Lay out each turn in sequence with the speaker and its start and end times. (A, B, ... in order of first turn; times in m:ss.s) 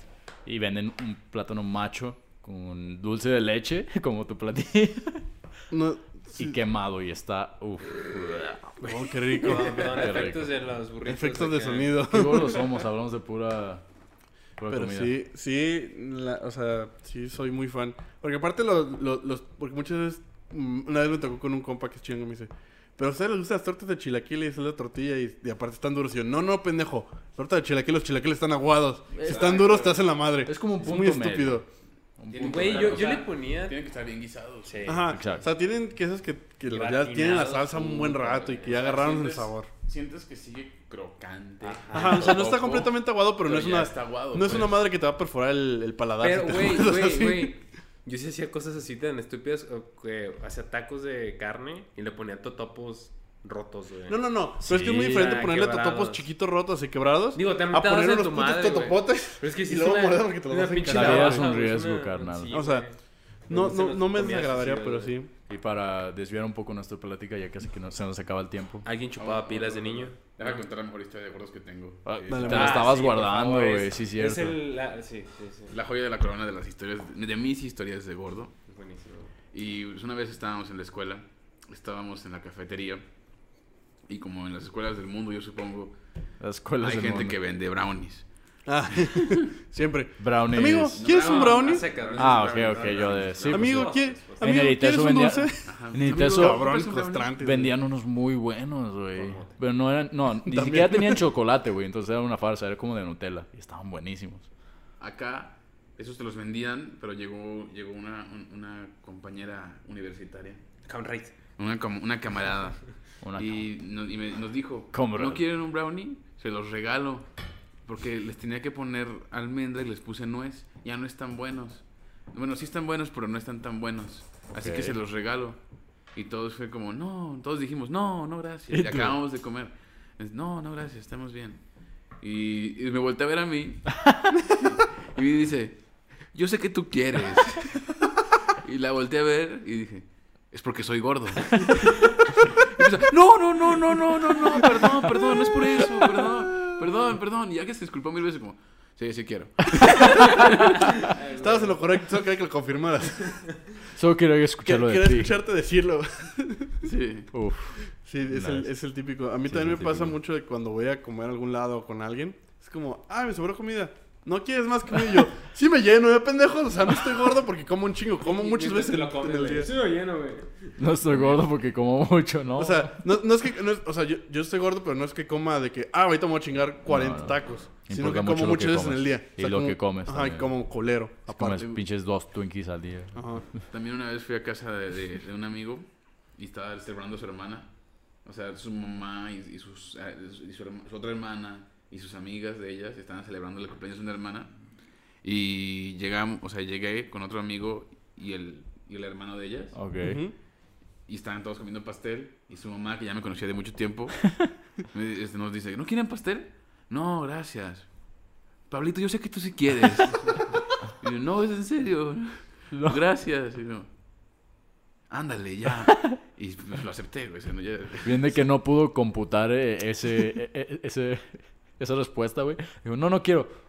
0:00.4-0:05.2 A
0:05.7-0:06.6 B
0:06.3-0:08.8 A
0:08.8-0:12.0 C
0:08.8-0:10.2 B
0:09.5-0:10.6 A
0:11.0-0:12.7 B
0:12.0-0:13.8 A
0:14.6-0:15.1 A
0:14.7-0:31.6 B
0:29.2-0:29.6 A
0:29.2-0:30.0 C
0:30.4-0:31.6 A
0:32.2-0:33.2 A
0:32.3-0:35.1 D
0:32.4-0:33.8 C
0:34.6-0:35.2 C
0:34.8-0:39.7 B
0:35.1-0:35.5 A
0:36.7-0:39.0 C
0:38.6-0:44.8 D
0:41.6-0:42.5 C
0:41.9-0:47.6 B
0:46.2-0:54.2 C
0:54.1-1:01.4 B
0:54.6-0:55.5 A
0:55.0-0:56.2 C
0:57.3-1:03.0 C
1:00.8-1:02.5 A
1:02.5-1:02.9 B
1:03.5-1:05.3 B
1:03.5-1:05.1 C
1:05.5-1:08.8 A
1:08.8-1:10.6 C
1:09.2-1:12.6 D
1:12.0-1:14.6 A
1:12.3-1:12.9 B
1:12.4-1:15.7 C
1:15.7-1:18.5 D
1:18.7-1:19.3 C
1:19.5-1:23.0 D
1:24.1-1:26.0 D
1:26.4-1:27.4 A
1:26.8-1:28.2 D
1:28.6-1:31.8 B
1:30.2-1:31.0 A
1:30.9-1:33.5 D
1:31.0-1:34.5 C
1:32.2-1:36.7 A
1:33.5-1:37.8 B
1:35.6-1:37.3 D
1:37.3-1:44.5 A
1:39.2-1:39.5 C
1:40.4-1:41.2 B
1:45.0-1:50.6 D
1:50.8-1:51.3 C
1:51.6-1:52.8 D
1:53.2-1:53.7 A
1:53.3-1:57.3 D
1:54.9-1:55.4 A
1:57.8-2:05.6 D
2:04.6-2:04.9 A
2:06.1-2:11.6 D
2:08.7-2:09.1 A
2:12.2-2:14.0 D
2:14.5-2:17.9 D
2:18.6-2:30.8 D
2:24.0-2:26.7 A
2:29.8-2:30.3 A
2:31.0-2:31.8 C
2:31.3-2:33.4 B
2:33.3-2:33.5 C
2:34.0-2:35.4 A
2:34.6-2:36.9 B
2:36.8-2:37.3 D
2:37.3-2:37.8 A
2:38.0-2:49.7 B
2:38.3-2:38.7 A
2:39.4-2:40.1 A
2:48.2-2:50.7 C
2:50.8-2:53.1 A
2:52.6-3:01.7 B
2:56.9-3:00.5 A
3:01.3-3:03.2 A
3:03.1-3:03.4 B
3:03.7-3:07.7 D
3:08.2-3:14.5 D
3:15.2-3:19.8 D
3:19.7-3:20.2 A
3:20.0-3:20.3 B
3:21.1-3:24.3 D
3:24.9-3:27.9 D
3:28.7-3:30.4 D
3:31.0-3:33.9 D
3:32.7-3:33.0 A
3:35.1-3:38.3 D
3:38.0-3:43.5 A